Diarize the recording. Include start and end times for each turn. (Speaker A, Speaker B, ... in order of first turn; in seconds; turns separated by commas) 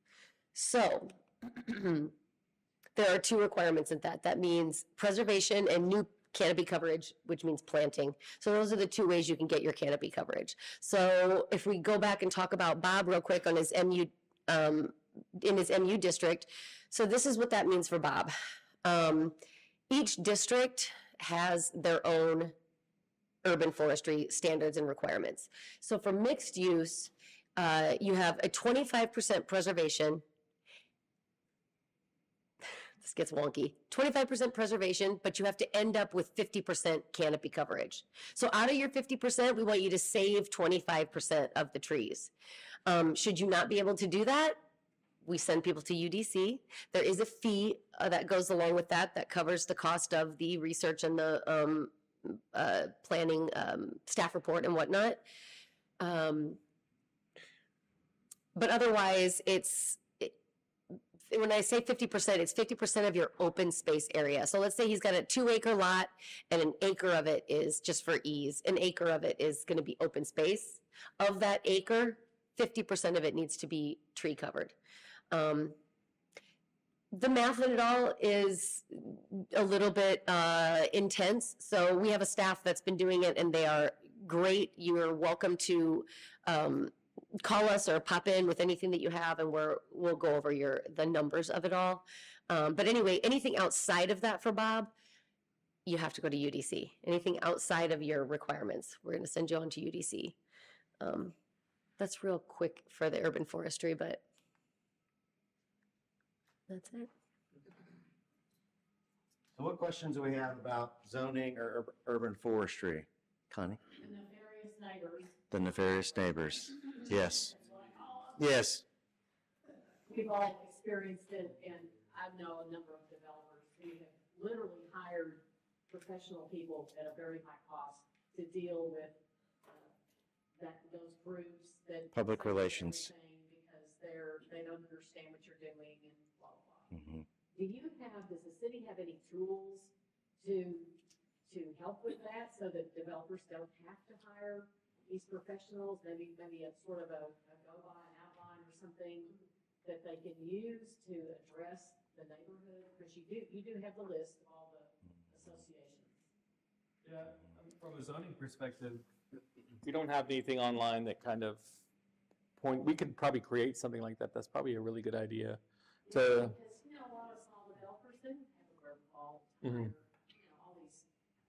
Speaker A: 0.6-2.1, Speaker A: 3.0-18.3, Speaker A: 18.8-19.4, Speaker A: 19.9-22.5, Speaker A: 23.4-30.2, Speaker A: 33.0-42.3, Speaker A: 42.9-44.6, Speaker A: 45.2-55.2, Speaker A: 56.0-56.6, Speaker A: 58.5-60.4, Speaker A: 61.3-74.8, Speaker A: 75.3-75.8, Speaker A: 77.1-94.9, Speaker A: 95.9-100.4, Speaker A: 101.0-101.3, Speaker A: 102.0-104.2, Speaker A: 106.7-107.1, Speaker B: 109.5-113.8, Speaker C: 114.0-118.4, Speaker B: 115.5-117.5, Speaker B: 118.4-118.8, Speaker C: 120.1-129.9, Speaker C: 130.6-136.9, Speaker B: 132.1-133.1, Speaker B: 136.9-137.3, Speaker C: 137.5-156.2, Speaker D: 157.0-159.0, Speaker D: 159.8-161.8, Speaker D: 162.6-166.6, Speaker C: 166.1-171.1, Speaker D: 169.6-169.9